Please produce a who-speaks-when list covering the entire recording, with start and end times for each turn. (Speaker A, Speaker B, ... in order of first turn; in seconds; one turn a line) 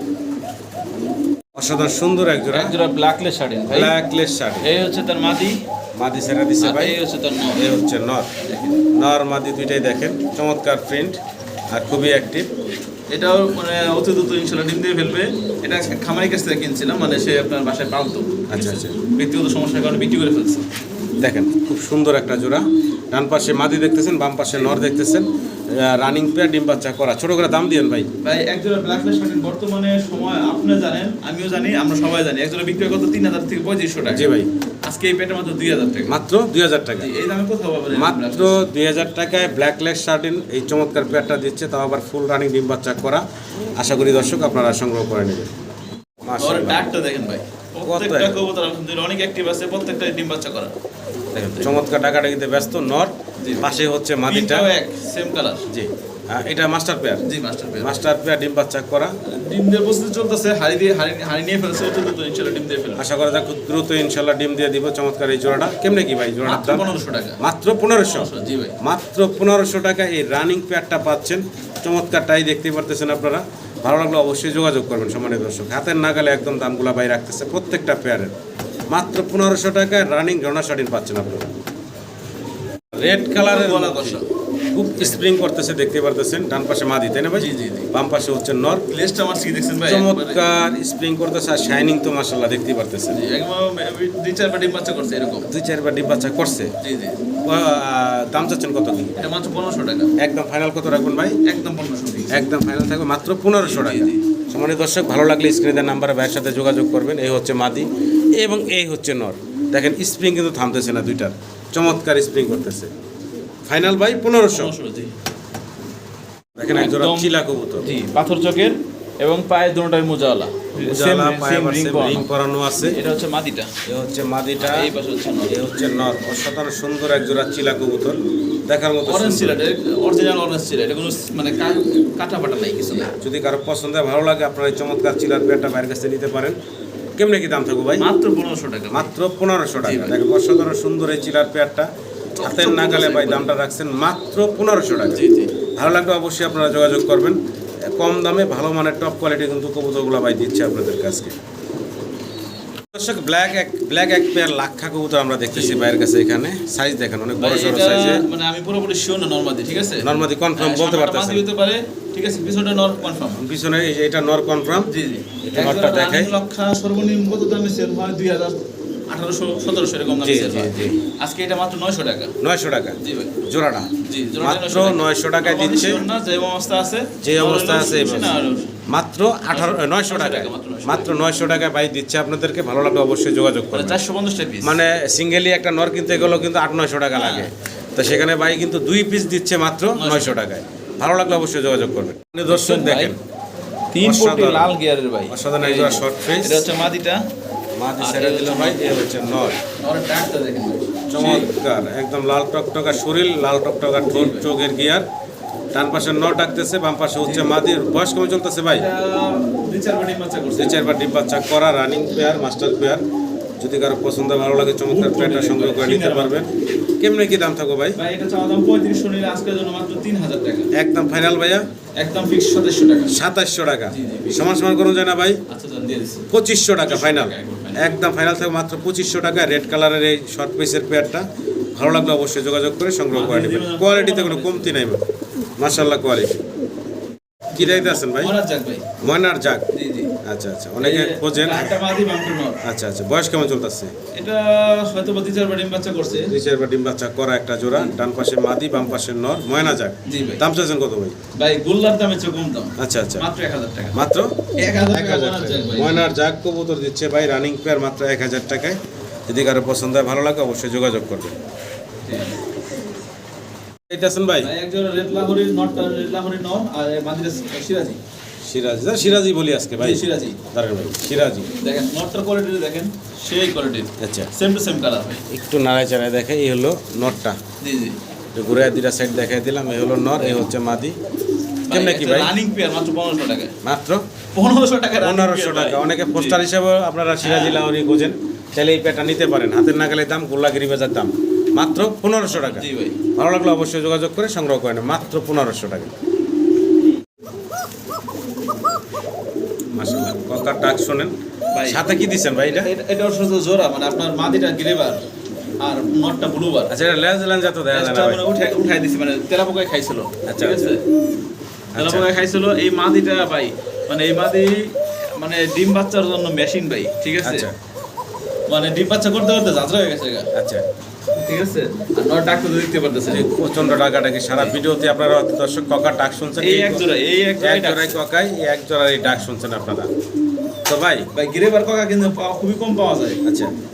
Speaker A: 1.6-2.8
Speaker B: 2.5-3.9
Speaker A: 3.7-4.7
Speaker B: 4.6-5.6
Speaker A: 6.0-7.0
Speaker B: 6.6-7.7
Speaker A: 7.5-8.3
Speaker B: 8.4-8.8
Speaker A: 8.9-11.2
Speaker A: 11.7-12.5
Speaker B: 13.1-20.6
Speaker A: 18.5-19.0
Speaker A: 21.2-28.1
Speaker B: 24.5-24.8
Speaker B: 28.2-34.3
Speaker A: 34.1-34.5
Speaker B: 34.9-36.2
Speaker A: 36.1-37.1
Speaker B: 37.0-38.7
Speaker A: 37.9-43.2
Speaker A: 43.8-45.7
Speaker A: 46.3-46.8
Speaker B: 46.4-50.7
Speaker A: 47.9-48.4
Speaker A: 51.3-54.7
Speaker B: 53.4-55.7
Speaker A: 55.7-57.2
Speaker B: 57.2-58.0
Speaker A: 57.8-59.1
Speaker B: 59.3-63.0
Speaker A: 63.0-78.3
Speaker B: 66.5-67.4
Speaker B: 68.0-68.8
Speaker A: 78.9-81.5
Speaker A: 82.9-84.2
Speaker B: 83.4-84.3
Speaker A: 84.7-88.8
Speaker B: 87.3-87.9
Speaker B: 88.9-90.5
Speaker A: 89.8-93.2
Speaker B: 93.1-95.5
Speaker A: 95.5-96.7
Speaker B: 96.8-97.2
Speaker A: 97.5-99.2
Speaker B: 99.2-100.1
Speaker A: 100.2-101.4
Speaker B: 101.5-102.4
Speaker A: 102.3-112.9
Speaker B: 103.6-104.2
Speaker A: 113.7-114.7
Speaker B: 114.5-115.1
Speaker A: 116.6-117.9
Speaker B: 116.8-122.3
Speaker A: 120.9-123.0
Speaker B: 122.9-123.7
Speaker A: 123.9-124.9
Speaker B: 124.6-125.6
Speaker A: 125.5-129.6
Speaker B: 129.1-133.2
Speaker A: 133.1-136.6
Speaker A: 137.2-138.1
Speaker B: 138.0-139.1
Speaker A: 138.9-141.9
Speaker B: 139.8-140.2
Speaker B: 142.4-143.6
Speaker A: 142.4-145.2
Speaker B: 145.1-145.5
Speaker A: 145.8-147.4
Speaker A: 147.9-151.4
Speaker A: 152.9-158.2
Speaker B: 155.5-155.8
Speaker B: 157.4-163.4
Speaker A: 160.0-161.4
Speaker A: 163.4-164.9
Speaker B: 164.8-168.6
Speaker A: 165.4-166.3
Speaker B: 169.1-172.3
Speaker A: 170.2-170.9
Speaker A: 172.4-173.9
Speaker B: 173.0-173.4
Speaker B: 174.0-178.7
Speaker A: 174.4-176.1
Speaker A: 177.2-178.4
Speaker A: 178.9-184.0
Speaker B: 179.5-181.1
Speaker B: 183.7-184.8
Speaker A: 184.6-193.2
Speaker B: 187.2-187.5
Speaker B: 189.9-190.3
Speaker B: 192.5-193.2
Speaker B: 193.9-197.2
Speaker A: 194.0-194.8
Speaker A: 195.3-196.7
Speaker A: 197.8-199.6
Speaker B: 198.0-199.1
Speaker B: 199.8-201.5
Speaker A: 201.1-205.1
Speaker B: 204.1-204.5
Speaker A: 205.7-208.9
Speaker B: 207.2-207.5
Speaker B: 208.7-210.9
Speaker A: 210.6-213.0
Speaker A: 213.6-218.0
Speaker B: 214.8-216.4
Speaker B: 218.0-220.7
Speaker A: 220.7-221.7
Speaker B: 222.0-223.2
Speaker A: 223.1-225.4
Speaker B: 223.9-224.5
Speaker B: 225.5-226.3
Speaker A: 226.3-231.3
Speaker B: 226.8-227.9
Speaker A: 231.8-235.0
Speaker B: 233.1-234.8
Speaker A: 235.6-236.4
Speaker B: 237.5-238.9
Speaker A: 237.6-238.3
Speaker A: 239.0-239.7
Speaker B: 239.7-240.1
Speaker A: 240.2-241.8
Speaker B: 240.8-242.6
Speaker A: 242.6-243.9
Speaker B: 244.2-246.3
Speaker A: 246.2-251.2
Speaker B: 250.1-250.4
Speaker B: 251.4-254.0
Speaker A: 252.8-253.2
Speaker A: 253.9-261.4
Speaker B: 254.6-256.1
Speaker B: 262.1-262.4
Speaker A: 263.9-264.5
Speaker B: 264.4-268.0
Speaker A: 268.5-271.5
Speaker B: 269.8-270.4
Speaker B: 271.6-275.2
Speaker A: 274.0-274.3
Speaker A: 275.3-277.4
Speaker B: 277.6-278.0
Speaker A: 278.4-281.0
Speaker B: 280.2-280.5
Speaker B: 281.7-283.6
Speaker A: 281.7-282.3
Speaker A: 283.6-284.0
Speaker B: 284.3-286.4
Speaker A: 285.0-295.9
Speaker B: 287.2-287.6
Speaker B: 292.3-293.0
Speaker A: 299.8-302.7
Speaker B: 301.5-301.8
Speaker B: 302.4-305.0
Speaker B: 305.6-306.7
Speaker A: 306.7-308.2
Speaker B: 307.7-310.8
Speaker A: 310.3-310.8
Speaker A: 311.8-312.1
Speaker B: 311.8-317.5
Speaker A: 317.2-317.5
Speaker B: 318.5-320.3
Speaker A: 320.4-320.6
Speaker B: 321.2-323.3
Speaker A: 323.1-326.9
Speaker B: 326.4-328.0
Speaker A: 327.4-329.9
Speaker A: 330.7-331.1
Speaker B: 331.1-333.2
Speaker A: 333.2-333.5